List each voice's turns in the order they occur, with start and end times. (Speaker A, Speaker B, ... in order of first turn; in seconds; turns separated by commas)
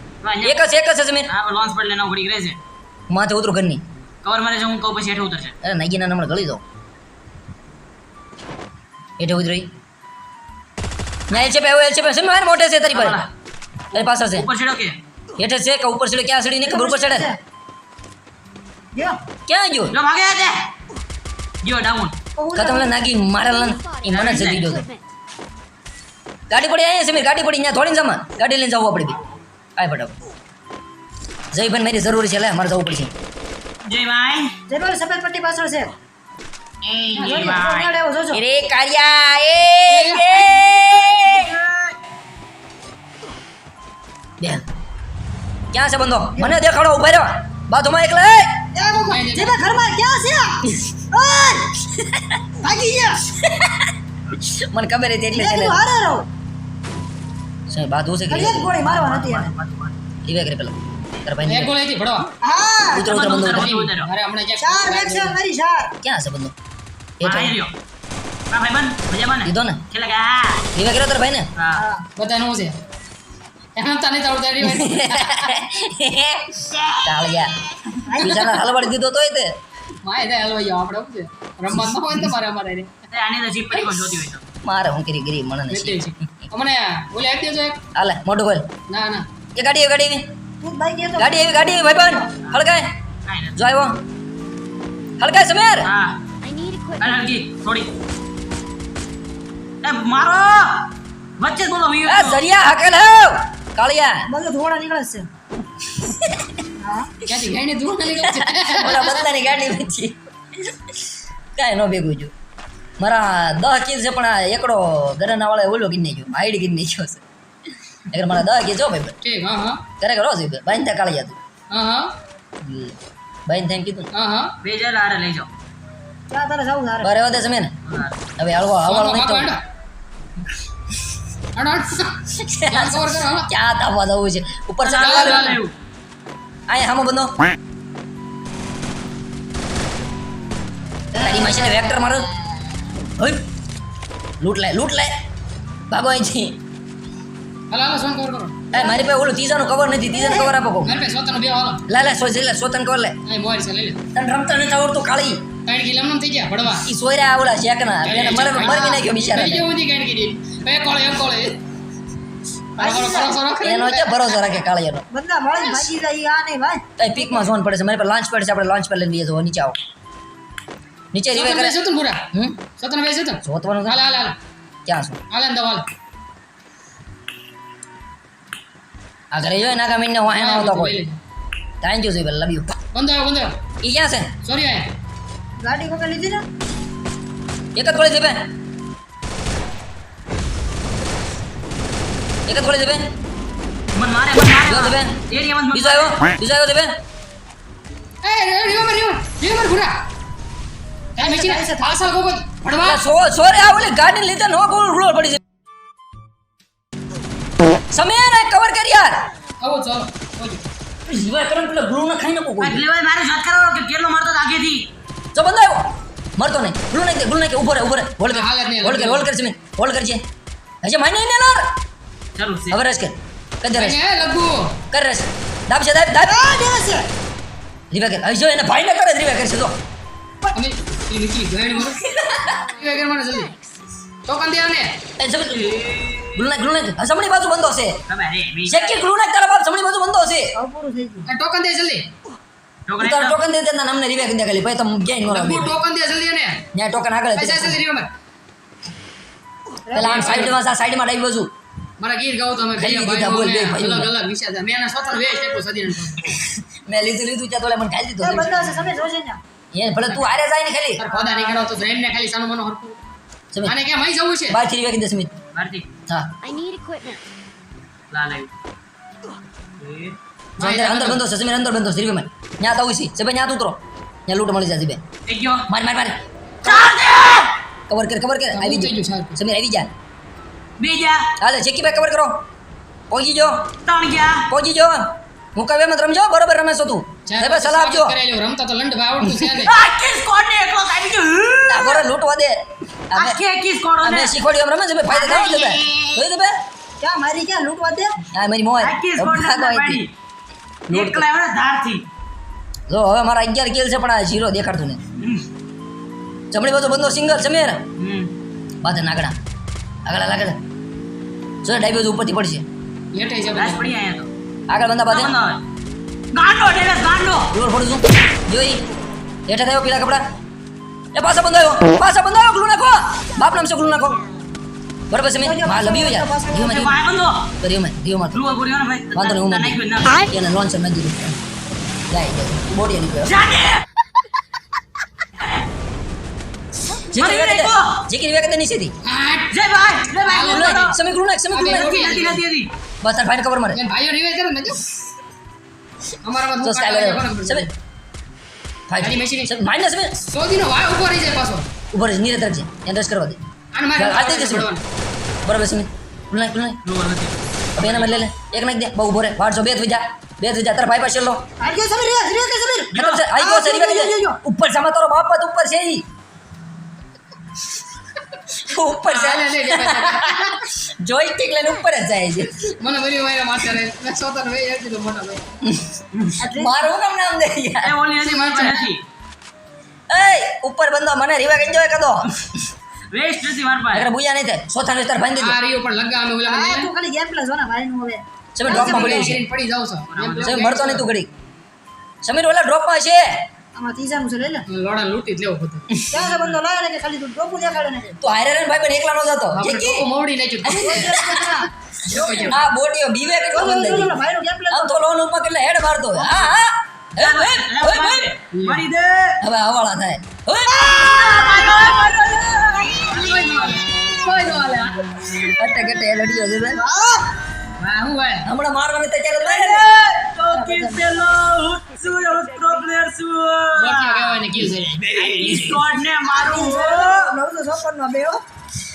Speaker A: 0.2-0.7, Speaker B: 0.4-1.3, Speaker A: 1.3-2.6, Speaker B: 3.1-3.8, Speaker A: 4.2-5.5, Speaker B: 5.6-6.6, Speaker B: 9.2-9.7, Speaker B: 11.3-13.3, Speaker A: 12.9-13.3, Speaker A: 13.9-15.0, Speaker B: 13.9-14.5, Speaker B: 15.4-17.3, Speaker C: 16.6-17.4, Speaker B: 19.5-20.0, Speaker A: 19.9-20.7, Speaker A: 21.6-22.2, Speaker C: 22.4-23.0, Speaker B: 22.6-24.9, Speaker D: 23.4-25.1, Speaker A: 24.1-24.7, Speaker B: 26.5-29.2, Speaker B: 29.8-30.1, Speaker B: 31.5-33.1, Speaker A: 33.9-34.5, Speaker C: 34.7-35.9, Speaker A: 36.8-38.0, Speaker E: 37.1-37.6, Speaker C: 37.2-38.4, Speaker B: 38.3-41.6, Speaker A: 41.2-41.9, Speaker B: 45.7-48.6, Speaker C: 48.8-50.6, Speaker E: 49.0-49.6, Speaker C: 51.1-51.7, Speaker C: 52.6-53.2, Speaker B: 53.4-55.8, Speaker C: 55.3-56.3, Speaker B: 57.7-58.7, Speaker C: 58.3-59.5, Speaker A: 58.6-60.0, Speaker B: 60.2-61.7, Speaker E: 61.5-62.3, Speaker C: 62.4-63.1, Speaker B: 62.9-63.8, Speaker A: 63.1-64.1, Speaker E: 63.4-65.4, Speaker C: 64.6-65.9, Speaker B: 66.0-66.5, Speaker B: 67.2-67.6, Speaker A: 67.2-67.7, Speaker A: 68.5-70.7, Speaker B: 69.5-69.8, Speaker B: 70.8-71.5, Speaker A: 71.6-71.8, Speaker C: 71.8-72.1, Speaker E: 72.2-72.8, Speaker E: 73.8-75.5, Speaker B: 74.6-77.6, Speaker B: 78.2-79.5, Speaker E: 80.0-82.9, Speaker A: 83.1-84.5, Speaker B: 84.6-86.1, Speaker E: 85.7-87.8, Speaker B: 88.0-88.7, Speaker E: 88.9-89.3, Speaker B: 89.6-90.3, Speaker C: 90.6-92.3, Speaker B: 91.2-92.9, Speaker A: 93.3-93.6, Speaker B: 93.6-94.0, Speaker B: 95.2-95.9, Speaker A: 95.8-96.2, Speaker D: 96.4-97.2, Speaker A: 97.0-97.9, Speaker A: 99.8-102.4, Speaker B: 102.1-104.2, Speaker C: 104.3-105.3, Speaker B: 106.0-106.5, Speaker C: 106.8-107.1, Speaker E: 107.3-109.3, Speaker B: 108.3-111.0, Speaker B: 111.6-112.3, Speaker B: 113.0-117.2, Speaker B: 118.1-119.2, Speaker E: 119.2-119.8, Speaker B: 120.0-121.4, Speaker E: 121.7-122.1, Speaker B: 122.6-123.0, Speaker B: 123.5-124.1, Speaker E: 124.1-124.5, Speaker A: 124.6-125.5, Speaker C: 126.3-127.1, Speaker B: 127.0-127.7, Speaker A: 127.8-128.2, Speaker B: 128.4-129.5, Speaker E: 128.9-129.6, Speaker E: 131.6-133.5, Speaker B: 132.4-135.6, Speaker A: 134.8-135.7, Speaker E: 134.9-135.6, Speaker B: 136.7-137.4, Speaker B: 141.1-142.3, Speaker B: 143.2-143.4, Speaker B: 144.4-145.1, Speaker B: 145.9-146.6, Speaker E: 147.7-148.6, Speaker B: 148.7-151.0, Speaker C: 150.2-150.5, Speaker E: 150.8-151.8, Speaker B: 151.9-153.2, Speaker E: 153.3-154.0, Speaker B: 154.1-155.4, Speaker E: 155.7-156.9, Speaker B: 156.8-159.7, Speaker E: 158.0-161.6, Speaker C: 158.6-159.0, Speaker E: 162.8-164.6, Speaker C: 162.8-163.4, Speaker B: 163.6-165.1, Speaker C: 165.1-167.5, Speaker E: 165.5-165.9, Speaker B: 167.0-169.8, Speaker B: 171.1-171.8, Speaker E: 171.3-172.3, Speaker B: 172.3-172.6, Speaker E: 172.8-174.4, Speaker B: 173.4-174.0, Speaker B: 174.9-175.2, Speaker E: 175.3-175.9, Speaker B: 179.3-181.0, Speaker E: 180.3-181.2, Speaker B: 181.8-182.8, Speaker E: 182.9-183.6, Speaker B: 183.8-184.3, Speaker E: 184.4-184.9, Speaker C: 185.6-186.4, Speaker B: 187.8-188.4, Speaker B: 192.5-193.1, Speaker A: 193.9-196.2, Speaker B: 194.7-195.2, Speaker B: 195.7-196.9, Speaker E: 198.2-200.0, Speaker E: 201.2-203.0, Speaker C: 201.2-201.9, Speaker B: 202.8-205.4, Speaker B: 207.9-209.2, Speaker E: 209.6-210.7, Speaker B: 211.1-212.8, Speaker A: 212.6-214.8, Speaker B: 215.3-215.8, Speaker B: 216.4-220.2, Speaker E: 218.3-219.3, Speaker B: 220.8-221.7, Speaker A: 222.4-222.8, Speaker B: 222.7-224.0, Speaker E: 223.8-224.8, Speaker B: 224.9-226.4, Speaker C: 226.3-227.1, Speaker B: 227.9-229.8, Speaker E: 230.5-232.0, Speaker B: 232.2-232.5, Speaker D: 232.5-233.8, Speaker E: 232.7-233.5, Speaker E: 234.2-235.0, Speaker B: 235.2-235.7, Speaker A: 235.5-236.5, Speaker B: 236.3-238.0, Speaker A: 238.1-239.0, Speaker B: 238.7-240.5, Speaker C: 240.6-241.3, Speaker E: 241.3-242.1, Speaker A: 242.9-243.4, Speaker B: 243.0-245.8, Speaker E: 245.3-246.6, Speaker B: 246.7-247.8, Speaker E: 247.4-248.1, Speaker C: 249.9-250.5, Speaker E: 249.9-250.6, Speaker B: 249.9-251.5, Speaker E: 252.0-256.4, Speaker B: 252.8-254.1, Speaker B: 256.7-258.7, Speaker C: 258.2-259.4, Speaker B: 259.7-261.1, Speaker E: 261.0-263.0, Speaker E: 263.6-264.6, Speaker B: 264.5-265.4, Speaker A: 265.5-265.9, Speaker D: 266.4-267.2, Speaker A: 268.1-268.5, Speaker A: 269.8-270.2, Speaker E: 270.6-271.2, Speaker B: 270.6-275.0, Speaker A: 275.3-275.7, Speaker B: 275.7-276.7, Speaker A: 276.6-277.6, Speaker B: 277.9-279.9, Speaker E: 278.5-279.4, Speaker A: 280.8-281.3, Speaker B: 281.4-282.4, Speaker B: 283.1-283.7, Speaker A: 283.9-284.5, Speaker B: 284.5-288.2, Speaker E: 287.3-289.7, Speaker A: 289.6-292.1, Speaker B: 291.7-292.6, Speaker B: 293.1-293.4, Speaker A: 293.1-294.3, Speaker B: 294.0-296.6, Speaker A: 295.1-296.2, Speaker C: 297.0-298.1, Speaker B: 298.3-300.0, Speaker A: 298.8-300.1, Speaker B: 300.9-301.3, Speaker A: 300.9-302.1, Speaker B: 302.9-305.0, Speaker A: 305.2-305.5, Speaker B: 306.5-307.8, Speaker A: 308.0-308.3, Speaker B: 308.8-309.4, Speaker B: 310.1-310.6, Speaker B: 311.6-312.7, Speaker E: 313.1-313.9, Speaker A: 313.5-314.3, Speaker B: 314.7-315.3, Speaker A: 315.1-315.6, Speaker A: 316.3-317.5, Speaker B: 317.5-318.8, Speaker B: 319.5-320.3, Speaker B: 321.1-324.2, Speaker B: 325.1-327.0, Speaker C: 325.4-326.8, Speaker A: 326.6-327.5, Speaker B: 327.6-328.4, Speaker A: 328.3-330.3, Speaker B: 329.1-331.4, Speaker B: 332.1-333.4, Speaker A: 333.3-333.8, Speaker A: 337.0-338.0, Speaker B: 337.1-338.9, Speaker E: 339.1-339.5, Speaker A: 339.5-341.0, Speaker E: 340.2-340.8, Speaker B: 340.5-342.3, Speaker E: 341.5-342.4, Speaker A: 341.6-342.7, Speaker B: 343.0-343.8, Speaker E: 343.7-344.9, Speaker E: 346.2-347.7, Speaker B: 346.6-347.7, Speaker B: 348.9-350.2, Speaker E: 349.0-349.6, Speaker E: 350.2-351.7, Speaker B: 351.9-353.4, Speaker E: 353.7-354.8, Speaker B: 354.0-354.7, Speaker B: 355.5-356.8, Speaker A: 356.9-358.3, Speaker B: 357.8-361.4, Speaker C: 361.6-364.4, Speaker A: 362.9-363.3, Speaker B: 362.9-366.1, Speaker B: 368.6-372.7, Speaker E: 369.0-370.6, Speaker E: 372.8-375.4, Speaker B: 375.6-378.0, Speaker C: 376.4-376.8, Speaker A: 377.8-379.0, Speaker E: 378.2-378.9, Speaker B: 380.1-382.3, Speaker A: 383.1-384.1, Speaker B: 383.9-385.6, Speaker E: 385.4-386.9, Speaker C: 386.5-389.3, Speaker B: 388.6-389.4, Speaker E: 388.7-391.0, Speaker A: 390.1-390.7, Speaker B: 390.4-391.3, Speaker B: 392.2-393.4, Speaker C: 393.8-394.7, Speaker E: 394.7-395.9, Speaker C: 396.1-398.2, Speaker A: 396.2-396.6, Speaker B: 398.2-400.1, Speaker E: 399.5-401.2, Speaker B: 400.7-401.4, Speaker C: 400.7-401.7, Speaker E: 402.0-402.6, Speaker A: 402.1-402.6, Speaker B: 402.4-404.2, Speaker C: 403.5-405.0, Speaker B: 404.7-408.3, Speaker A: 407.2-409.4, Speaker E: 408.5-408.8, Speaker B: 409.4-410.9, Speaker C: 410.9-411.6, Speaker A: 410.9-415.5, Speaker E: 413.1-414.6, Speaker B: 415.6-416.8, Speaker C: 416.7-417.3, Speaker E: 417.8-418.5, Speaker B: 418.5-419.9, Speaker A: 419.4-424.4, Speaker C: 420.5-421.1, Speaker E: 423.8-425.8, Speaker A: 425.1-427.3, Speaker B: 425.3-425.8, Speaker C: 426.3-428.4